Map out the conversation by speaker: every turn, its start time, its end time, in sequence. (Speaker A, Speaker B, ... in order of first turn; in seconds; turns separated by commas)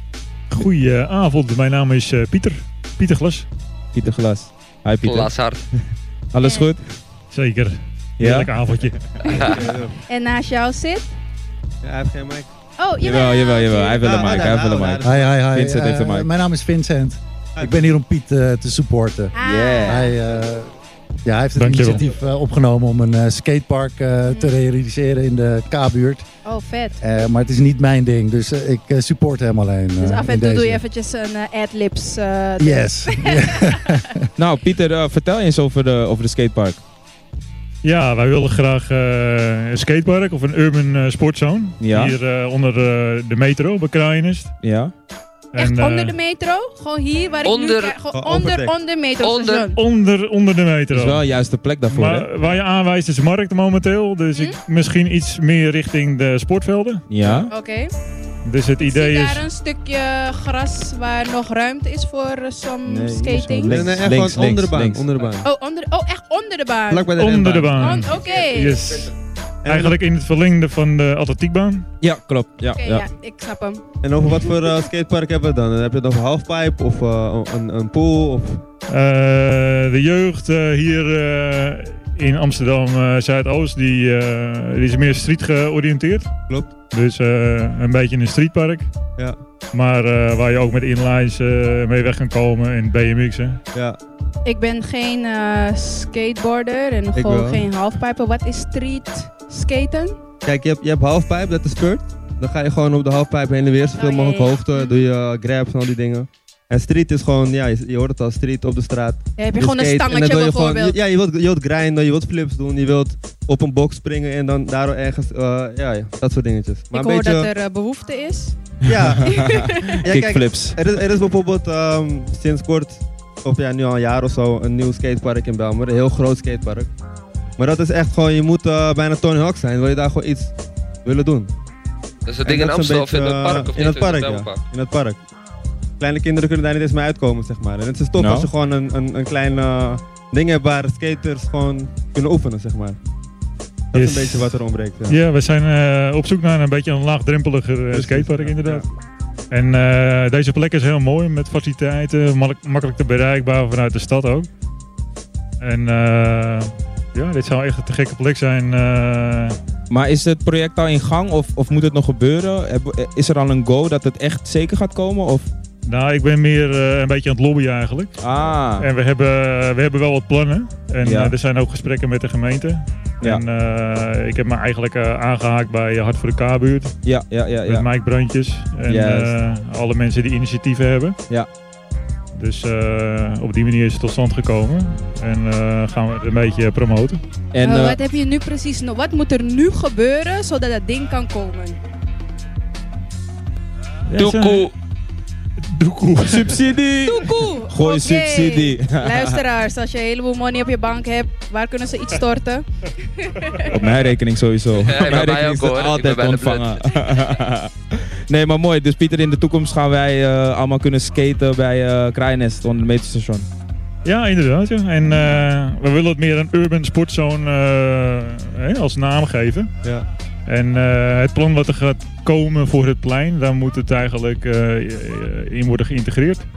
Speaker A: 0.5-3.5, Speaker B: 3.9-5.8, Speaker C: 5.0-5.6, Speaker B: 6.3-6.8, Speaker D: 6.4-6.7, Speaker A: 7.3-9.0, Speaker B: 8.2-8.5, Speaker D: 9.2-11.1, Speaker C: 9.3-9.6, Speaker E: 9.4-10.0, Speaker E: 11.8-12.5, Speaker D: 12.8-14.5, Speaker B: 13.0-16.3, Speaker E: 14.0-15.4, Speaker F: 15.0-19.4, Speaker E: 17.5-17.9, Speaker D: 19.3-20.2, Speaker B: 19.4-20.1, Speaker F: 19.9-20.7, Speaker F: 21.2-26.2, Speaker A: 21.6-22.0, Speaker D: 24.2-24.6, Speaker D: 26.4-27.0, Speaker F: 27.0-30.8, Speaker D: 30.0-33.9, Speaker F: 32.6-34.0, Speaker B: 34.4-36.8, Speaker A: 37.8-44.5, Speaker B: 41.8-42.2, Speaker B: 44.6-44.9, Speaker A: 45.5-46.2, Speaker D: 45.5-49.8, Speaker C: 47.4-47.9, Speaker E: 48.1-48.8, Speaker C: 49.2-49.7, Speaker A: 49.7-51.2, Speaker B: 50.9-52.3, Speaker A: 51.9-57.4, Speaker D: 54.3-54.6, Speaker B: 57.1-57.5, Speaker D: 57.5-57.9, Speaker A: 58.4-59.4, Speaker D: 58.8-63.8, Speaker B: 62.8-65.0, Speaker E: 63.7-65.5, Speaker D: 65.4-67.1, Speaker E: 66.9-68.0, Speaker A: 67.1-69.1, Speaker D: 67.8-68.8, Speaker E: 69.6-70.0, Speaker A: 69.7-71.8, Speaker B: 72.0-73.1, Speaker D: 72.8-73.8, Speaker E: 74.0-78.6, Speaker A: 78.9-86.3, Speaker E: 86.5-86.7, Speaker A: 86.9-88.9, Speaker A: 89.7-93.6, Speaker D: 94.4-100.2, Speaker E: 97.1-97.6, Speaker E: 100.4-117.5, Speaker D: 104.0-105.0, Speaker D: 109.4-111.0, Speaker D: 116.9-118.6, Speaker B: 118.8-120.8, Speaker E: 118.8-119.4, Speaker D: 119.2-120.0, Speaker E: 120.0-126.9, Speaker E: 127.6-131.5, Speaker C: 132.2-134.6, Speaker E: 132.4-135.2, Speaker E: 136.0-143.0, Speaker B: 138.2-138.5, Speaker E: 143.9-145.2, Speaker A: 143.9-144.6, Speaker A: 145.1-148.9, Speaker E: 147.9-148.8, Speaker A: 149.5-154.5, Speaker A: 155.6-159.5, Speaker B: 159.9-165.5, Speaker A: 165.9-168.2, Speaker B: 168.2-168.8, Speaker A: 168.8-176.9, Speaker B: 171.0-171.3, Speaker B: 177.0-177.9, Speaker A: 177.7-181.2, Speaker B: 178.9-179.3, Speaker A: 182.3-187.2, Speaker B: 187.5-188.0, Speaker D: 187.6-191.8, Speaker A: 194.1-194.7, Speaker C: 194.2-194.7, Speaker A: 195.7-196.5, Speaker B: 196.2-199.4, Speaker D: 197.1-203.7, Speaker B: 203.7-213.5, Speaker C: 204.7-206.8, Speaker A: 214.0-219.7, Speaker A: 220.5-226.4